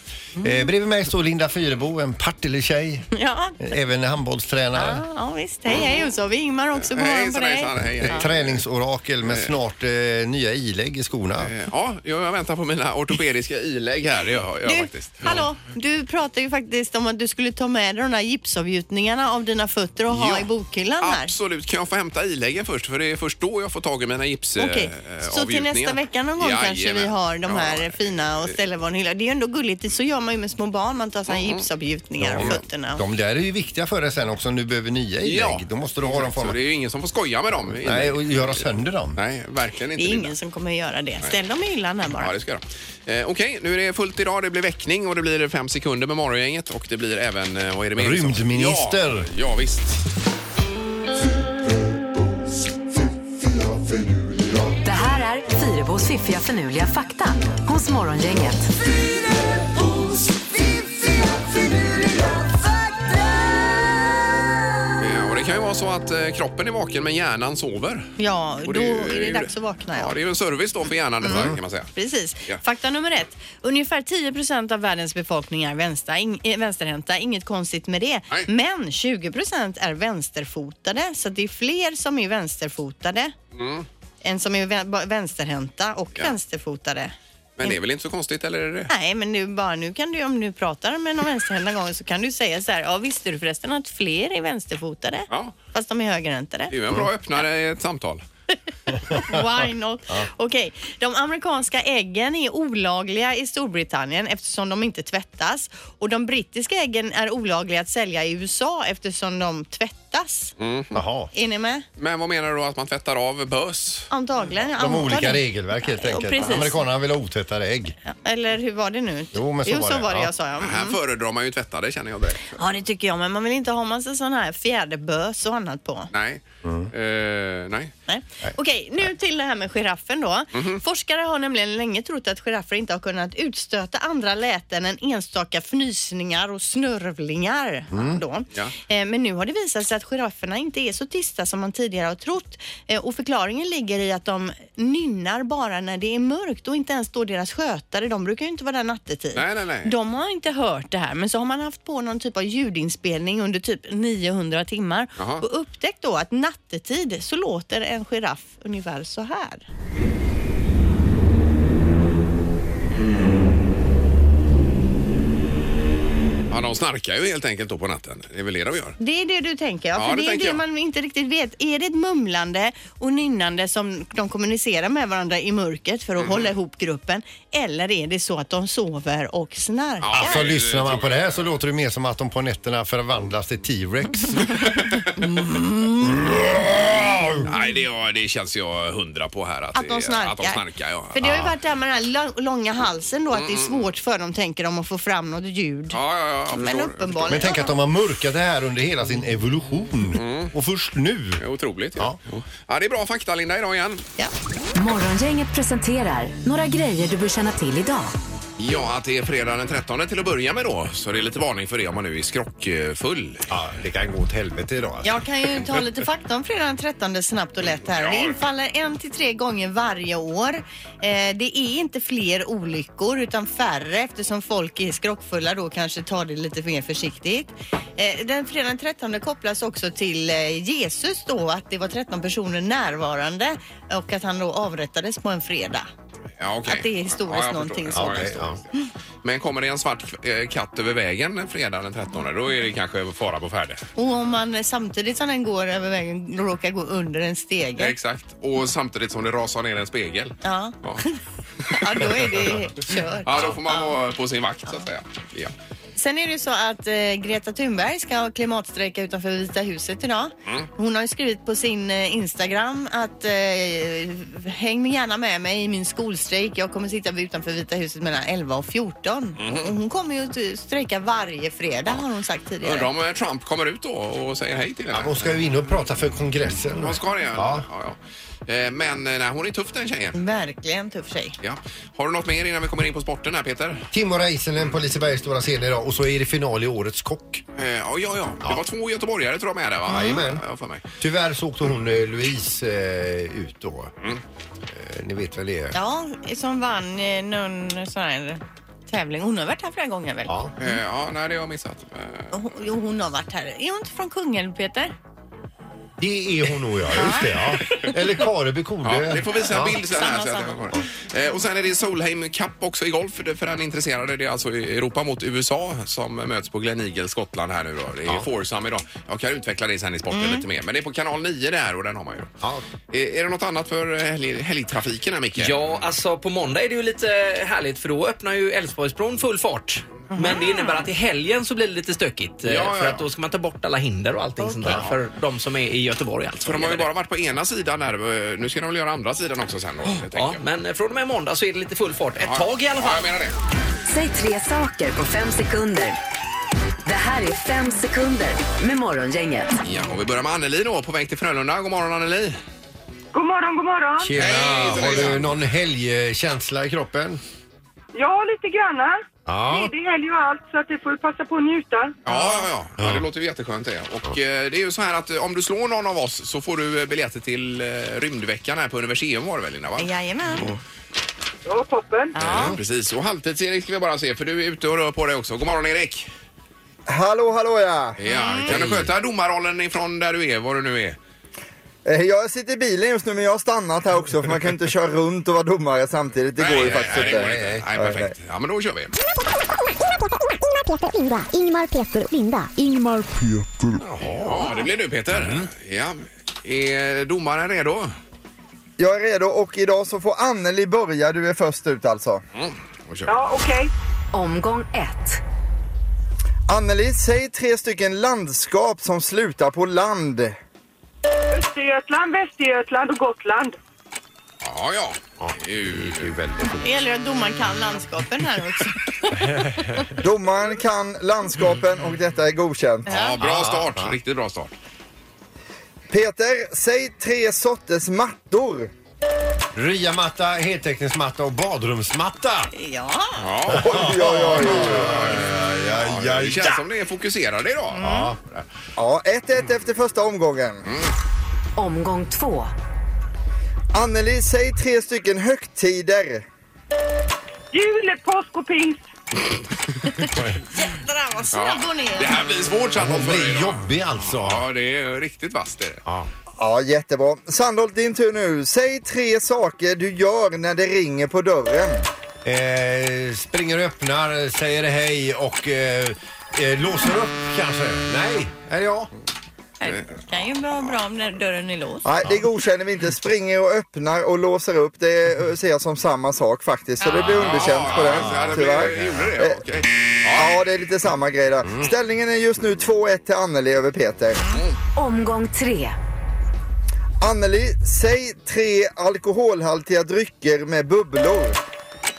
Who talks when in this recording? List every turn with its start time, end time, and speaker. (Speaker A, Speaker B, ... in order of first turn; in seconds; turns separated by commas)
Speaker A: 0.4-0.7, Speaker B: 0.4-3.1, Speaker A: 3.1-3.7, Speaker B: 3.6-5.0, Speaker A: 4.8-8.3, Speaker C: 5.7-6.1, Speaker C: 6.8-8.6, Speaker B: 8.0-11.5, Speaker C: 9.3-9.6, Speaker C: 11.4-15.5, Speaker A: 14.7-21.3, Speaker C: 20.1-28.6, Speaker A: 24.6-33.0, Speaker C: 31.3-31.7, Speaker B: 32.2-36.6, Speaker C: 32.2-32.6, Speaker C: 35.2-40.3, Speaker B: 37.7-39.2, Speaker A: 40.0-42.3, Speaker C: 42.1-50.0, Speaker B: 48.0-49.3, Speaker D: 54.8-58.7, Speaker C: 65.0-71.9, Speaker A: 68.2-70.2, Speaker A: 71.2-83.4, Speaker C: 83.5-83.9, Speaker A: 84.2-87.8, Speaker C: 87.6-88.9, Speaker A: 88.9-96.7, Speaker C: 95.3-95.5, Speaker C: 96.7-98.2, Speaker A: 99.3-110.5, Speaker C: 110.6-111.0, Speaker B: 110.9-111.3, Speaker A: 111.3-111.8, Speaker C: 112.0-114.1, Speaker A: 114.1-116.8, Speaker B: 114.8-118.0, Speaker A: 118.1-121.0, Speaker B: 119.3-120.3, Speaker C: 120.6-122.6, Speaker A: 122.5-126.1, Speaker C: 126.1-127.9, Speaker B: 126.7-126.9, Speaker A: 128.1-159.6, Speaker C: 130.5-130.8, Speaker B: 137.9-138.2, Speaker C: 149.3-149.9, Speaker C: 155.2-155.4, Speaker C: 166.5-169.0, Speaker A: 169.0-180.4, Speaker C: 170.0-170.6, Speaker C: 180.0-181.5, Speaker B: 180.1-184.6, Speaker C: 184.7-185.0, Speaker A: 185.2-186.2, Speaker C: 186.6-191.5, Speaker A: 189.8-196.0, Speaker C: 193.3-193.9, Speaker C: 195.9-197.5, Speaker A: 196.5-197.8, Speaker B: 197.3-201.4, Speaker C: 200.1-200.5, Speaker C: 201.4-204.1, Speaker D: 204.8-208.1, Speaker C: 208.6-213.5, Speaker B: 213.5-215.2, Speaker A: 215.0-235.9, Speaker C: 217.9-218.4, Speaker C: 236.4-238.7, Speaker A: 236.6-238.9, Speaker B: 237.9-238.6, Speaker C: 239.2-243.8, Speaker A: 244.0-248.0, Speaker C: 247.8-251.0, Speaker A: 250.4-253.9, Speaker C: 251.7-255.5, Speaker A: 256.0-272.9, Speaker C: 269.4-269.7, Speaker C: 272.6-275.4, Speaker B: 274.9-277.7, Speaker C: 276.8-280.2, Speaker A: 280.1-281.4, Speaker C: 281.4-283.9, Speaker B: 283.9-287.4, Speaker C: 287.6-290.8, Speaker B: 289.9-290.4, Speaker B: 291.0-293.9, Speaker B: 294.7-295.8, Speaker A: 295.7-300.7, Speaker B: 300.3-300.5, Speaker C: 300.6-302.3, Speaker A: 302.3-304.9, Speaker B: 306.0-309.9, Speaker A: 306.9-307.4, Speaker C: 308.8-322.3, Speaker A: 309.8-310.8, Speaker A: 320.1-320.4, Speaker C: 322.9-325.6, Speaker E: 325.4-336.9, Speaker A: 330.1-330.8, Speaker C: 332.5-333.1, Speaker A: 334.4-334.7, Speaker C: 334.6-335.0, Speaker C: 336.4-340.4, Speaker E: 339.8-343.1, Speaker C: 342.2-343.4, Speaker D: 343.9-346.0, Speaker D: 346.9-349.5, Speaker C: 349.6-352.4, Speaker F: 353.1-354.2, Speaker B: 354.0-357.2, Speaker C: 354.2-355.4, Speaker F: 357.9-362.0, Speaker B: 359.3-359.7, Speaker C: 362.1-370.6, Speaker A: 362.1-362.5, Speaker B: 362.8-363.1, Speaker A: 369.8-370.5, Speaker F: 371.5-372.2, Speaker A: 372.1-372.6, Speaker C: 372.2-376.1, Speaker B: 372.3-372.6, Speaker G: 376.9-378.0, Speaker C: 378.0-381.0, Speaker A: 378.1-378.6, Speaker B: 378.5-378.9, Speaker G: 381.9-388.1, Speaker C: 386.4-388.9, Speaker B: 386.6-387.7, Speaker H: 389.9-393.1, Speaker B: 393.8-394.5, Speaker C: 394.1-397.9, Speaker B: 395.1-395.5, Speaker G: 398.8-402.2, Speaker C: 402.4-403.1, Speaker F: 403.1-403.7, Speaker D: 404.1-405.2, Speaker G: 406.5-410.4, Speaker F: 411.3-413.6, Speaker C: 414.4-416.2, Speaker B: 415.2-416.8, Speaker A: 416.6-419.9, Speaker G: 420.0-422.9, Speaker A: 422.9-423.2, Speaker C: 422.9-424.5, Speaker B: 423.2-424.0, Speaker G: 425.9-428.7, Speaker B: 429.6-432.5, Speaker A: 432.6-433.4, Speaker C: 433.2-433.9, Speaker B: 433.5-436.6, Speaker G: 433.6-435.1, Speaker C: 434.6-438.5, Speaker A: 437.7-438.1, Speaker B: 437.8-438.2, Speaker G: 438.8-440.7, Speaker C: 440.6-440.9, Speaker D: 441.6-442.5, Speaker G: 443.7-446.3, Speaker F: 447.5-448.8, Speaker A: 449.9-452.2, Speaker C: 451.3-455.8, Speaker B: 452.8-454.4, Speaker G: 456.4-461.9, Speaker B: 462.2-468.9, Speaker A: 469.6-471.9, Speaker C: 469.7-470.0, Speaker G: 471.9-479.4, Speaker C: 476.9-480.4, Speaker B: 477.7-479.1, Speaker G: 480.2-484.2, Speaker D: 484.8-485.8, Speaker G: 487.0-491.4